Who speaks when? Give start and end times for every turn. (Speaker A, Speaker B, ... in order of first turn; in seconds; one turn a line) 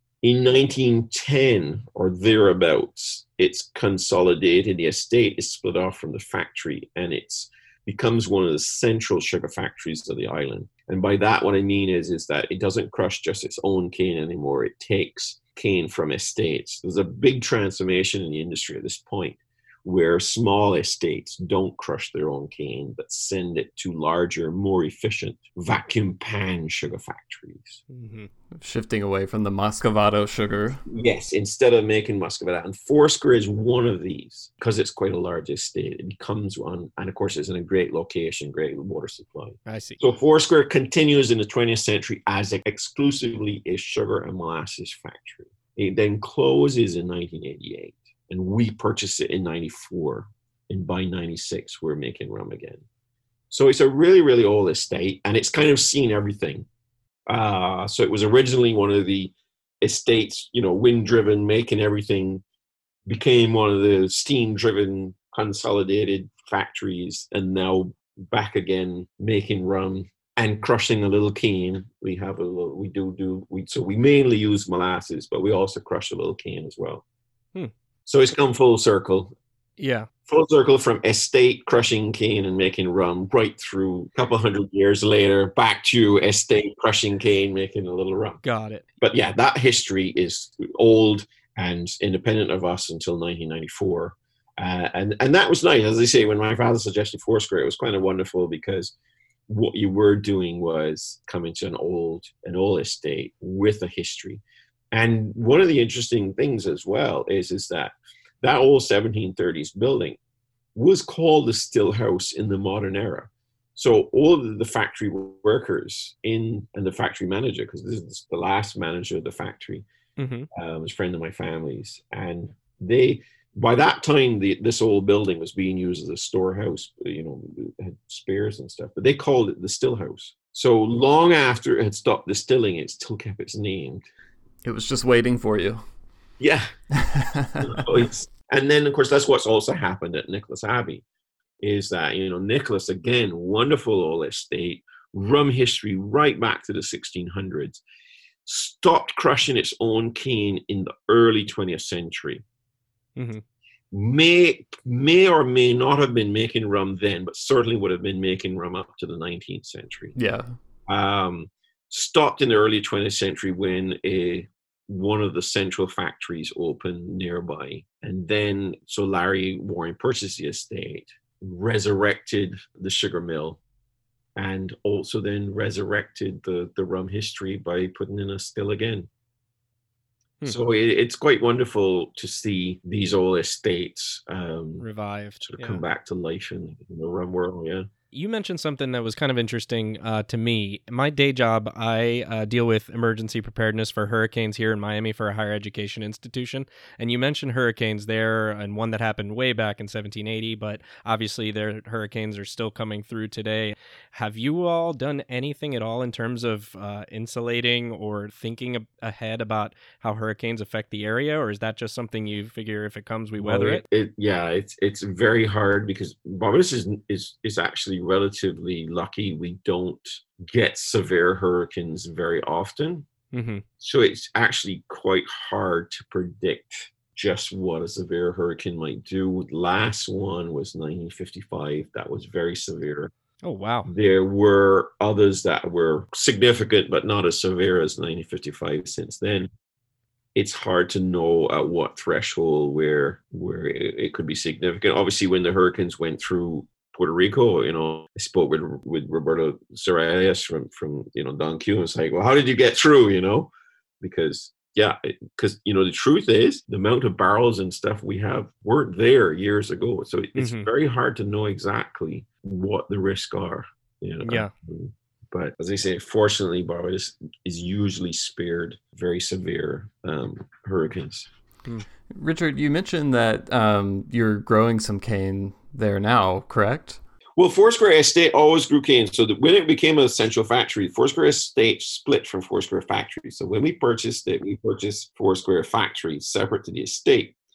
Speaker A: 0.2-27.8
Speaker B: 27.9-28.3
Speaker C: 28.6-30.8
Speaker A: 30.9-52.8
Speaker B: 39.6-40.0
Speaker A: 53.5-56.7
Speaker A: 57.3-62.4
Speaker A: 63.0-77.0
Speaker A: 78.0-79.3
Speaker B: 79.8-80.1
Speaker A: 80.3-88.4
Speaker B: 88.4-88.8
Speaker A: 89.0-98.9
Speaker A: 99.5-104.4
Speaker A: 104.9-110.2
Speaker A: 110.7-119.8
Speaker B: 120.2-120.5
Speaker A: 120.5-134.1
Speaker C: 134.6-135.8
Speaker A: 136.4-136.7
Speaker C: 136.9-137.8
Speaker A: 137.6-141.0
Speaker A: 141.6-147.8
Speaker A: 148.4-152.4
Speaker B: 153.2-153.4
Speaker A: 153.9-160.1
Speaker C: 160.2-160.5
Speaker A: 160.9-173.6
Speaker A: 174.3-179.1
Speaker A: 180.4-184.9
Speaker B: 184.8-185.8
Speaker A: 185.4-187.9
Speaker B: 188.1-213.8
Speaker A: 213.4-223.1
Speaker B: 223.3-223.6
Speaker A: 223.8-233.1
Speaker B: 233.4-233.9
Speaker A: 233.8-239.5
Speaker A: 240.3-271.3
Speaker B: 260.4-260.7
Speaker B: 264.2-264.5
Speaker C: 272.1-277.0
Speaker A: 277.4-287.3